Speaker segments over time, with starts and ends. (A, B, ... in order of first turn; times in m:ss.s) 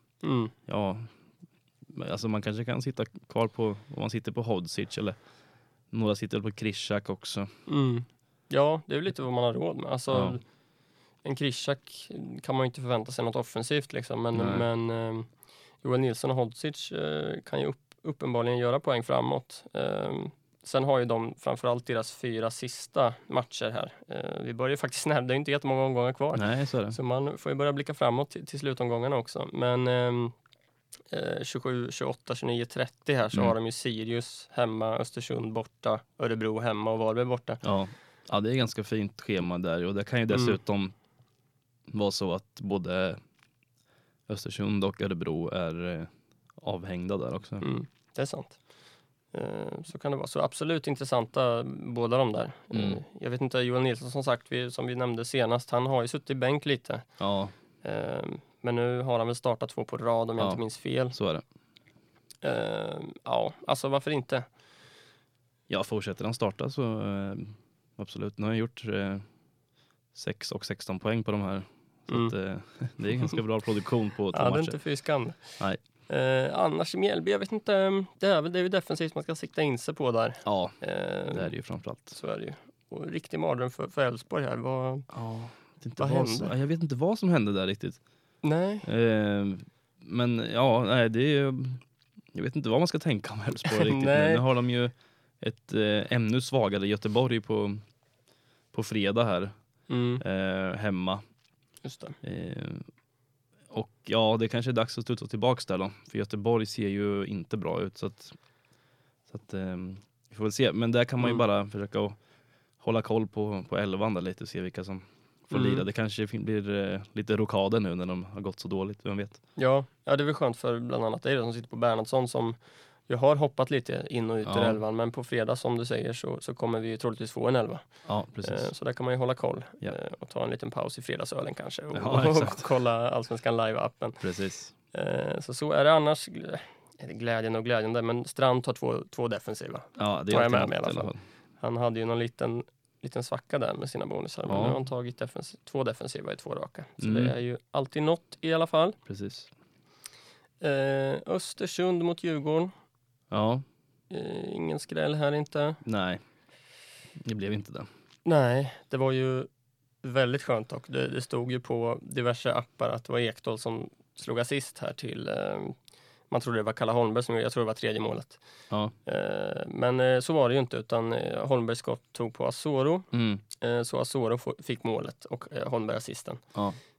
0:00.2-0:00.5 A
0:00.7-0:01.1 B
0:01.9-0:05.2 B
0:05.9-0:07.5 B
0:07.7-0:10.4 A
0:10.1-0:10.4 B
0:11.2-0:15.3 A
0:14.3-0:14.7 B
0:15.8-0:30.4 A
0:26.4-0:27.0 B
0:31.1-0:37.6 A
0:37.6-0:40.9 B
0:40.3-0:40.6 A
0:41.9-0:43.2 B
0:44.3-0:47.6 B
0:47.6-0:48.6 A
0:49.3-0:57.1 A
0:52.7-0:53.0 B
0:57.2-0:57.5 B
0:57.8-1:01.2 A
1:00.4-1:01.4 B
1:02.4-1:04.5 A
1:05.7-1:09.2 B
1:10.2-1:14.8 B
1:14.3-1:15.4 A
1:16.1-1:21.5 A
1:20.4-1:20.8 B
1:21.3-1:22.2 B
1:22.1-1:25.1 A
1:25.1-1:28.0 B
1:26.0-1:26.5 A
1:28.4-1:28.9 A
1:28.8-1:37.8 B
1:33.7-1:34.4 A
1:38.7-1:39.5 B
1:39.9-1:40.2 A
1:40.2-1:41.2 B
1:41.8-1:42.2 A
1:42.2-1:42.9 B
1:43.7-1:48.4 B
1:49.3-1:52.2 B
1:52.8-1:59.4 B
1:55.5-1:55.8 A
1:59.6-2:02.6 A
2:03.1-2:07.8 A
2:04.5-2:04.8 B
2:08.1-2:08.7 B
2:08.4-2:14.2 A
2:11.9-2:12.7 B
2:14.2-2:14.7 B
2:14.9-2:29.0 A
2:20.0-2:21.2 B
2:24.5-2:24.8 B
2:27.0-2:27.4 B
2:29.1-2:29.5 B
2:30.6-2:32.7 A
2:33.3-2:33.6 B
2:34.1-2:35.8 A
2:35.8-2:36.2 B
2:37.2-2:37.9 B
2:38.2-2:39.5 A
2:40.0-2:45.8 A
2:46.3-2:48.4 A
2:49.0-2:56.4 A
2:53.1-2:53.4 B